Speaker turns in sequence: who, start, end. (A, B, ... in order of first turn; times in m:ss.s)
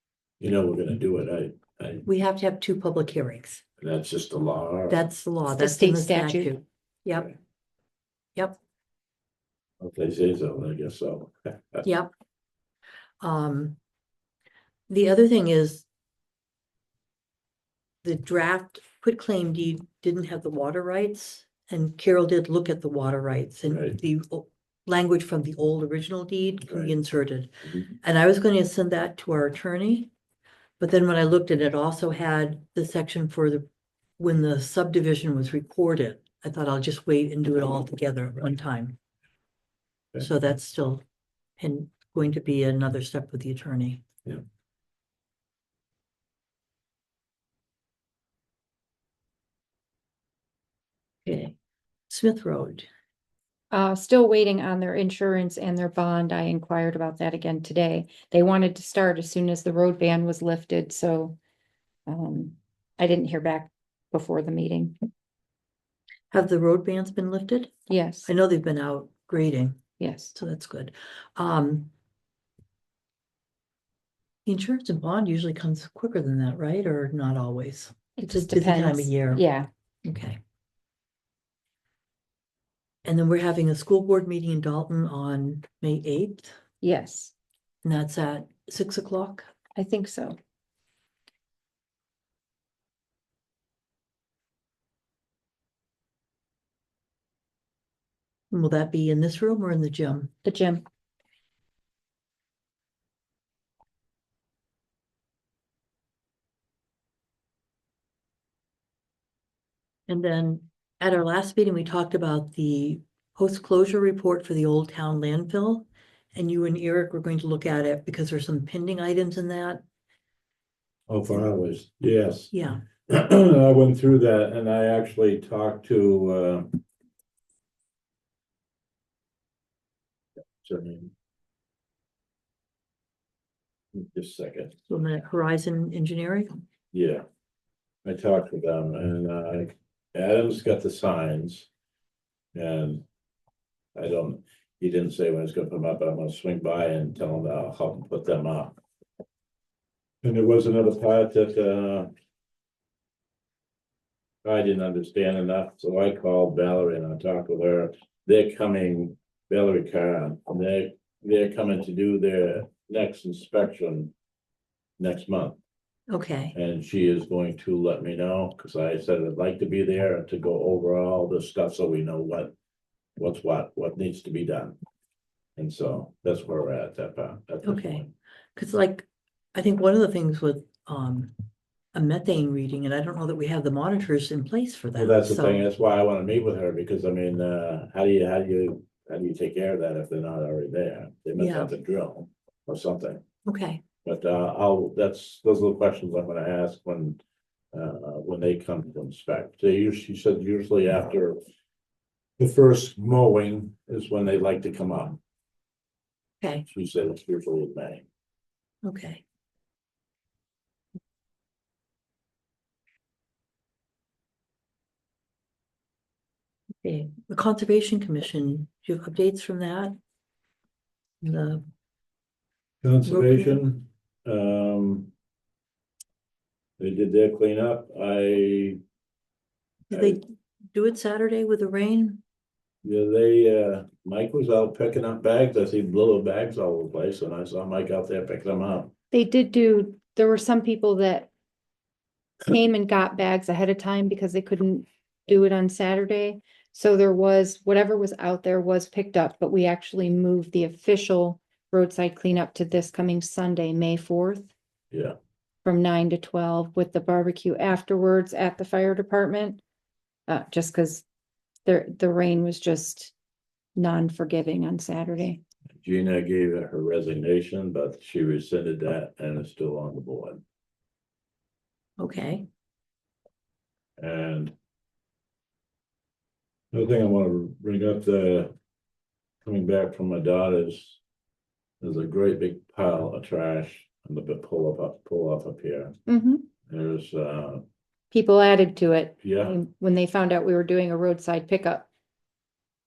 0:00.4-0:02.0 A
0:02.0-0:03.6 B
0:03.8-0:05.0 A
0:04.9-0:07.3 B
0:05.5-0:06.5 C
0:09.8-0:11.8 A
0:11.8-0:12.1 B
0:13.2-0:13.8 B
0:14.9-0:15.8 B
0:18.0-0:30.1 B
0:23.7-0:23.9 A
0:30.8-0:33.6 B
0:34.2-0:39.0 B
0:40.2-0:41.0 B
0:41.6-0:44.0 B
0:51.2-0:51.5 B
0:52.1-0:52.9 B
0:53.7-1:01.4 C
1:02.1-1:05.0 C
1:06.3-1:07.7 B
1:07.9-1:08.3 C
1:08.2-1:09.8 B
1:10.0-1:10.3 C
1:10.3-1:11.9 B
1:14.4-1:19.4 B
1:18.2-1:19.7 C
1:20.0-1:20.4 B
1:23.0-1:26.5 B
1:26.8-1:27.3 C
1:27.8-1:29.5 B
1:29.7-1:30.4 C
1:38.5-1:40.3 B
1:40.4-1:40.8 C
1:50.1-1:59.8 B
2:01.1-2:02.5 A
2:02.5-2:02.8 B
2:03.0-2:06.8 A
2:10.6-2:11.1 A
2:13.9-2:14.7 A
2:14.9-2:16.6 B
2:16.9-2:17.2 A
2:18.0-2:21.7 A
2:22.5-2:23.0 A
2:23.9-2:28.8 A
2:30.2-2:32.1 A
2:34.4-2:44.1 A
2:45.0-2:45.6 A
2:46.1-2:46.5 B
2:46.5-2:52.5 A
2:53.2-2:54.8 A
2:55.6-2:58.1 A
2:57.6-3:01.3 B
3:01.9-3:05.6 B
3:04.9-3:13.2 A
3:11.4-3:11.7 B
3:13.4-3:13.8 B
3:14.0-3:17.2 A
3:17.7-3:21.4 A
3:22.4-3:25.2 A
3:26.4-3:26.6 B
3:26.7-3:28.0 A
3:28.8-3:29.2 B
3:36.8-3:40.0 B
3:41.2-3:41.6 B
3:42.8-3:45.1 A
3:43.0-3:43.6 B
3:46.8-3:48.8 A
3:49.9-3:52.2 B
3:49.9-3:50.2 A
3:52.8-3:58.9 A
3:59.1-4:01.3 C
4:02.4-4:14.5 C
4:14.9-4:15.2 A
4:15.6-4:19.6 C
4:20.3-4:21.0 C
4:21.6-4:23.1 C
4:23.8-4:25.4 C
4:25.8-4:30.4 A
4:32.0-4:32.5 B
4:34.0-4:34.5 A
4:36.7-4:38.5 A
4:39.4-4:41.0 A
4:41.8-4:46.0 A
4:46.1-4:46.5 C
4:46.7-4:47.6 A
4:48.1-4:51.9 C
4:49.2-4:49.6 A